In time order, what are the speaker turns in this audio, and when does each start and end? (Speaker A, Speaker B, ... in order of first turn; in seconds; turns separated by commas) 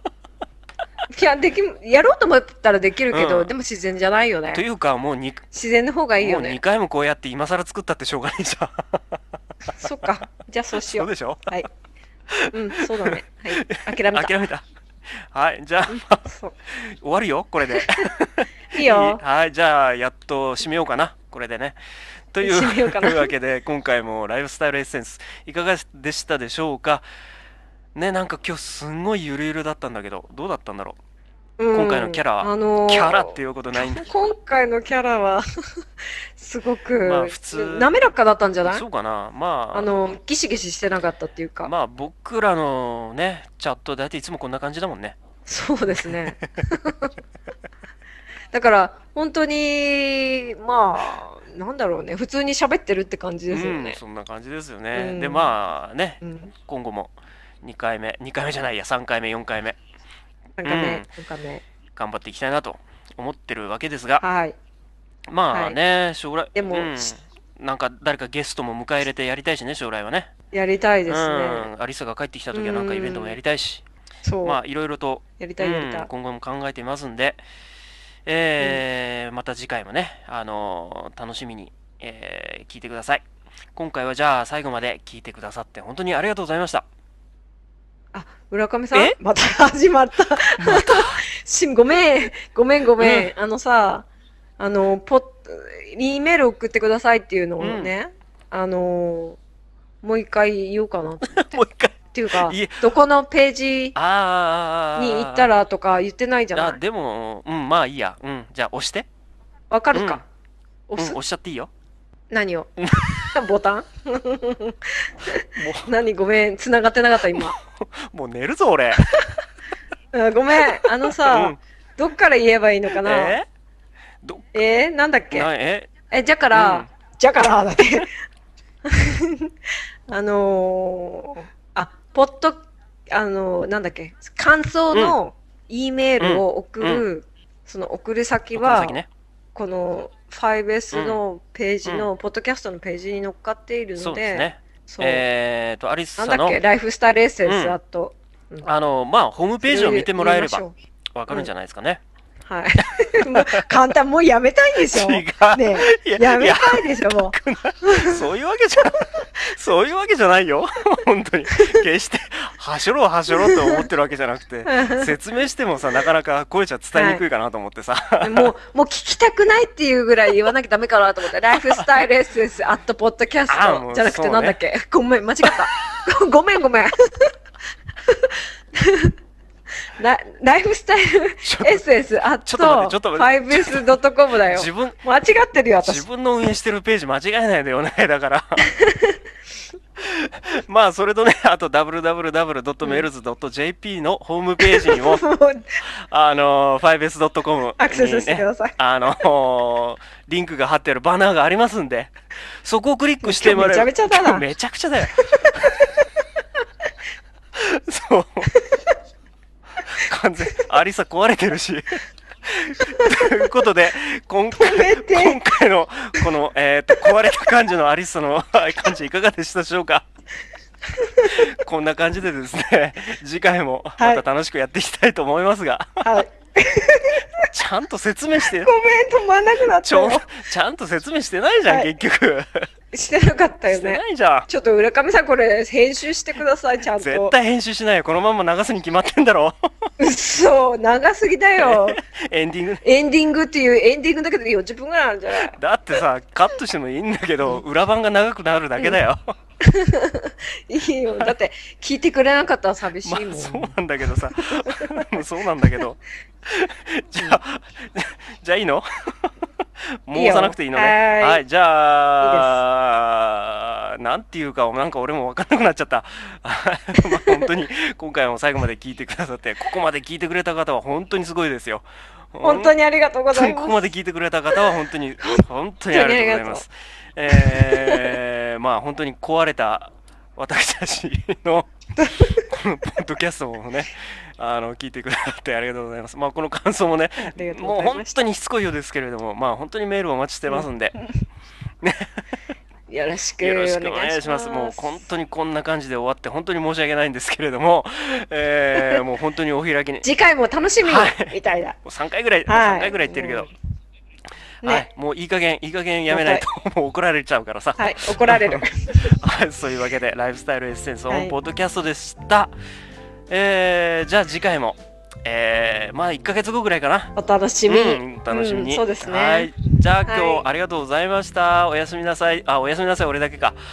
Speaker A: 1.1-4.6, Speaker B: 3.1-3.5, Speaker B: 4.5-5.5, Speaker A: 5.5-6.6, Speaker B: 6.2-9.2, Speaker A: 9.8-11.7, Speaker B: 10.8-11.6, Speaker B: 12.3-14.7, Speaker A: 12.5-14.3, Speaker B: 15.3-21.8, Speaker A: 15.9-16.5, Speaker A: 18.7-19.2, Speaker B: 22.3-27.1, Speaker A: 22.4-23.3, Speaker B: 27.9-31.0, Speaker A: 31.6-35.4, Speaker B: 31.7-34.1, Speaker A: 36.4-38.8, Speaker B: 37.0-37.9, Speaker B: 38.6-39.9, Speaker A: 39.7-41.7, Speaker B: 41.6-45.2, Speaker A: 45.5-47.1, Speaker A: 48.5-54.0, Speaker B: 53.5-59.8, Speaker A: 54.9-55.5, Speaker A: 56.2-56.5, Speaker A: 60.6-61.6, Speaker B: 60.6-61.1, Speaker B: 62.0-64.2, Speaker A: 64.2-64.6, Speaker B: 65.3-70.3, Speaker A: 65.5-65.8, Speaker A: 66.5-67.1, Speaker A: 70.5-71.7, Speaker B: 71.1-73.8, Speaker A: 72.5-73.4, Speaker A: 74.2-74.6, Speaker B: 74.5-77.4, Speaker A: 75.4-76.1, Speaker B: 78.3-83.2, Speaker B: 83.8-86.8, Speaker A: 88.1-94.1, Speaker B: 90.6-91.2, Speaker B: 93.0-93.3, Speaker A: 94.6-99.4, Speaker B: 97.6-97.9, Speaker A: 100.0-101.6, Speaker B: 101.2-102.9, Speaker A: 102.1-104.0, Speaker B: 104.0-105.5, Speaker A: 105.0-106.8, Speaker B: 106.5-109.1, Speaker A: 109.7-110.2, Speaker B: 109.9-110.2, Speaker A: 110.9-111.2, Speaker B: 111.0-111.7, Speaker A: 112.3-117.6, Speaker B: 112.8-113.2, Speaker B: 115.6-115.9, Speaker B: 117.3-119.1, Speaker A: 119.1-119.4, Speaker A: 120.1-123.4, Speaker B: 120.6-121.6, Speaker B: 123.0-123.5, Speaker B: 124.2-124.5, Speaker A: 124.5-125.5, Speaker B: 125.3-125.9, Speaker A: 126.1-128.1, Speaker B: 126.5-126.9, Speaker A: 128.9-129.5, Speaker A: 130.1-139.0, Speaker B: 136.2-137.1, Speaker B: 138.6-139.1, Speaker A: 139.6-145.2, Speaker B: 140.9-141.2, Speaker B: 141.8-142.1, Speaker B: 144.0-146.6, Speaker A: 146.2-148.7, Speaker B: 147.4-147.8, Speaker B: 148.6-150.6, Speaker A: 149.6-150.7, Speaker B: 151.2-152.0, Speaker A: 152.5-158.2, Speaker B: 153.3-153.6, Speaker B: 154.9-168.5, Speaker A: 161.5-161.8, Speaker A: 163.4-163.8, Speaker A: 164.7-165.1, Speaker A: 166.9-167.2, Speaker A: 168.2-177.3, Speaker B: 173.5-174.6, Speaker A: 178.1-179.1, Speaker A: 180.0-186.1, Speaker B: 181.4-181.9, Speaker B: 182.5-183.9, Speaker B: 184.5-185.0, Speaker B: 185.8-188.7, Speaker A: 188.7-189.2, Speaker B: 190.0-195.2, Speaker A: 192.8-193.1, Speaker A: 194.6-195.8, Speaker B: 195.8-202.1, Speaker A: 197.8-198.8, Speaker B: 202.6-205.6, Speaker A: 203.2-204.4, Speaker A: 205.2-206.1, Speaker B: 207.6-208.5, Speaker A: 208.5-208.9, Speaker B: 209.9-220.1, Speaker A: 212.9-213.3, Speaker A: 214.6-215.4, Speaker A: 221.0-221.5, Speaker B: 221.3-226.1, Speaker A: 226.0-227.3, Speaker B: 227.5-228.7, Speaker A: 228.5-230.3, Speaker B: 229.8-232.6, Speaker A: 231.7-231.9, Speaker A: 232.9-237.3, Speaker B: 233.7-234.5, Speaker B: 237.0-239.6, Speaker A: 240.0-242.0, Speaker B: 241.6-242.8, Speaker A: 242.8-245.6, Speaker B: 245.3-249.2, Speaker A: 249.6-253.8, Speaker B: 253.1-259.3, Speaker A: 254.4-255.1, Speaker B: 260.1-272.7, Speaker A: 260.1-261.4, Speaker A: 262.2-262.6, Speaker A: 267.0-267.4, Speaker A: 272.4-273.9, Speaker B: 273.3-281.7, Speaker A: 275.2-276.6, Speaker A: 277.3-278.2, Speaker A: 282.0-282.4, Speaker B: 282.4-291.0, Speaker A: 287.2-288.2, Speaker A: 290.5-291.1, Speaker B: 291.8-292.2, Speaker A: 292.9-295.0, Speaker B: 293.4-300.1, Speaker A: 300.0-301.8, Speaker B: 300.8-303.5, Speaker A: 302.5-303.5, Speaker A: 304.6-304.9, Speaker B: 304.6-312.5, Speaker A: 306.1-306.5, Speaker A: 307.8-309.1, Speaker A: 311.1-311.4, Speaker B: 313.3-317.1, Speaker A: 317.2-319.5, Speaker B: 317.7-323.6, Speaker A: 320.1-320.5